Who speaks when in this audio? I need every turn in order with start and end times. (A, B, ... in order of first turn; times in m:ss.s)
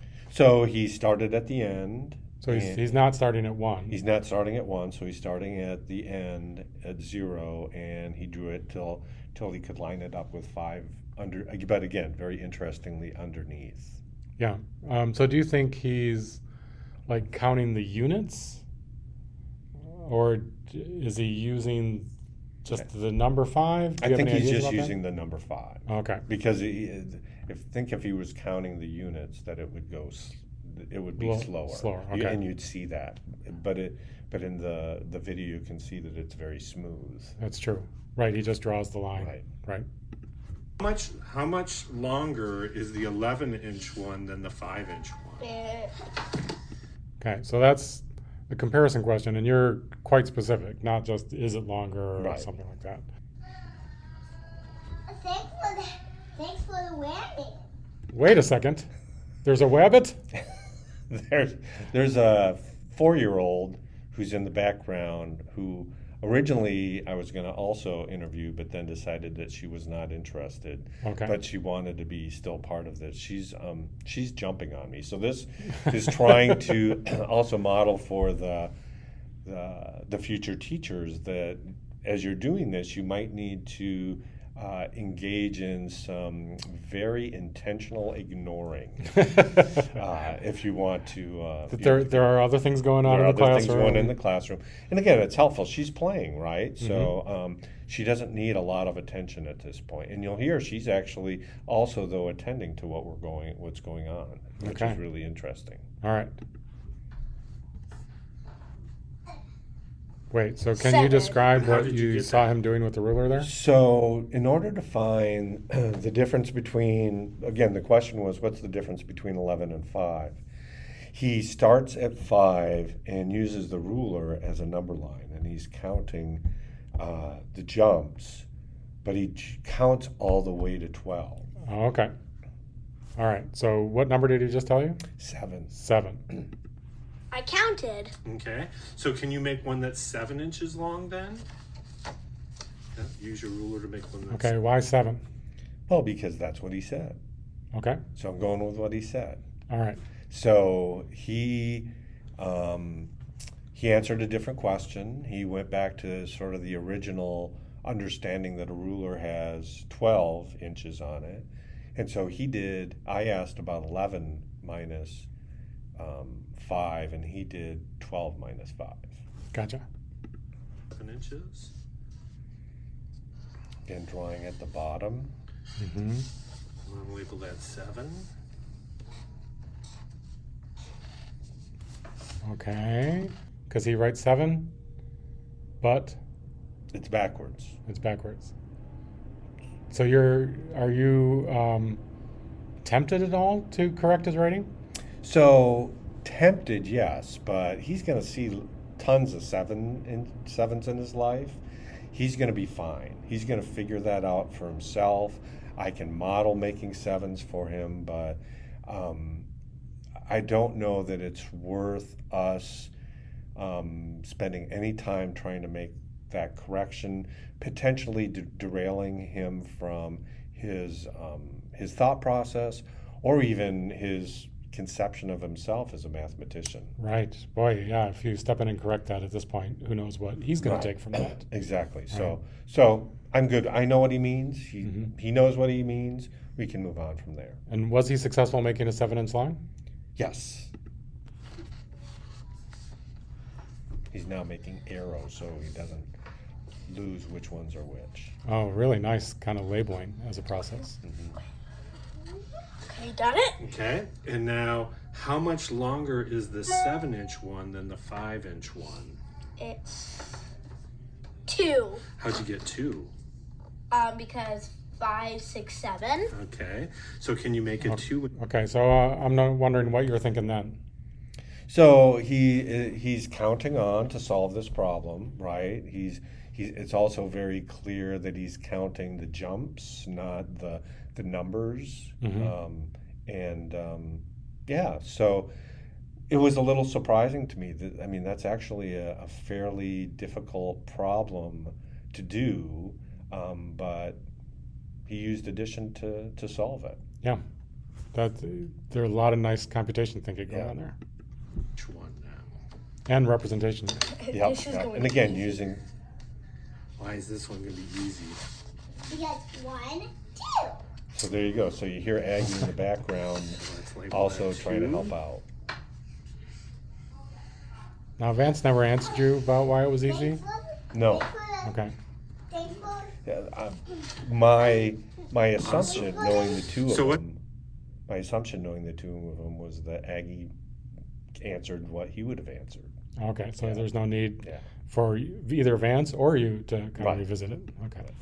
0:00.3-0:02.8 A
0:02.4-0:04.0 B
0:03.9-0:14.0 A
0:14.4-0:16.4 B
0:17.1-0:18.6 B
0:19.8-0:22.1 B
0:22.6-0:25.0 B
0:24.0-0:37.4 A
0:25.9-0:26.2 B
0:31.2-0:32.4 B
0:37.4-0:39.8 B
0:39.2-0:39.4 A
0:40.8-0:45.4 C
0:45.4-0:45.9 D
0:47.2-0:53.0 B
0:52.2-0:52.5 A
0:55.1-0:57.6 E
0:58.1-0:58.9 B
0:59.4-1:00.2 B
1:01.1-1:18.7 A
1:11.0-1:11.3 B
1:19.4-1:32.4 A
1:31.7-1:34.2 B
1:33.0-1:45.8 A
1:36.8-1:37.1 B
1:44.6-1:45.0 B
1:46.0-1:46.4 B
1:50.3-1:53.5 B
1:50.8-1:51.4 D
1:51.5-1:52.5 C
1:53.4-2:00.4 A
2:01.1-2:08.4 A
2:09.0-2:11.5 A
2:11.6-2:12.1 B
2:13.2-2:15.0 B
2:15.2-2:15.7 A
2:15.7-2:16.2 B
2:17.3-2:18.1 D
2:18.2-2:21.4 C
2:22.9-2:24.5 C
2:24.3-2:25.2 B
2:25.9-2:27.2 A
2:27.7-2:28.0 B
2:28.2-2:29.4 A
2:29.7-2:30.0 B
2:30.3-2:33.1 A
2:33.7-2:45.3 A
2:46.0-2:49.2 A
2:49.5-2:49.8 B
2:50.9-2:51.7 C
2:53.9-2:55.3 A
2:55.8-2:56.3 B
2:56.8-2:58.3 C
3:02.4-3:04.7 B
3:05.8-3:06.2 B
3:06.9-3:07.8 A
3:07.9-3:08.5 B
3:09.9-3:12.0 B
3:12.8-3:14.7 B
3:15.2-3:29.5 A
3:30.2-3:32.9 A
3:33.6-3:47.0 A
3:47.0-3:51.4 B
3:50.6-3:57.6 A
3:54.8-3:55.1 B
3:57.7-3:59.6 B
4:00.2-4:00.7 A
4:04.1-4:06.1 A
4:06.9-4:08.3 A
4:08.4-4:11.0 B
4:11.0-4:11.4 A
4:12.9-4:13.6 D
4:13.6-4:19.2 C
4:19.6-4:20.4 D
4:21.5-4:22.0 D
4:22.2-4:23.1 C
4:23.9-4:26.3 D
4:26.3-4:28.3 C
4:27.8-4:30.8 B
4:31.7-4:45.5 A
4:42.2-4:42.5 B
4:46.3-4:54.2 A
4:55.1-4:57.0 A
4:58.1-5:00.9 B
5:00.5-5:00.7 A
5:01.8-5:02.6 C
5:03.1-5:04.2 B
5:04.2-5:05.6 D
5:04.3-5:05.8 A
5:07.0-5:08.4 C
5:09.1-5:10.8 E
5:11.1-5:15.4 A
5:13.5-5:15.1 C
5:18.2-5:20.4 B
5:20.0-5:21.7 E
5:20.9-5:21.3 A
5:21.6-5:21.9 B
5:22.5-5:23.1 E
5:23.2-5:27.4 A
5:25.6-5:27.2 C
5:25.9-5:26.7 E
5:28.1-5:30.5 A
5:31.4-5:32.9 A
5:33.2-5:38.1 B
5:37.0-5:37.2 A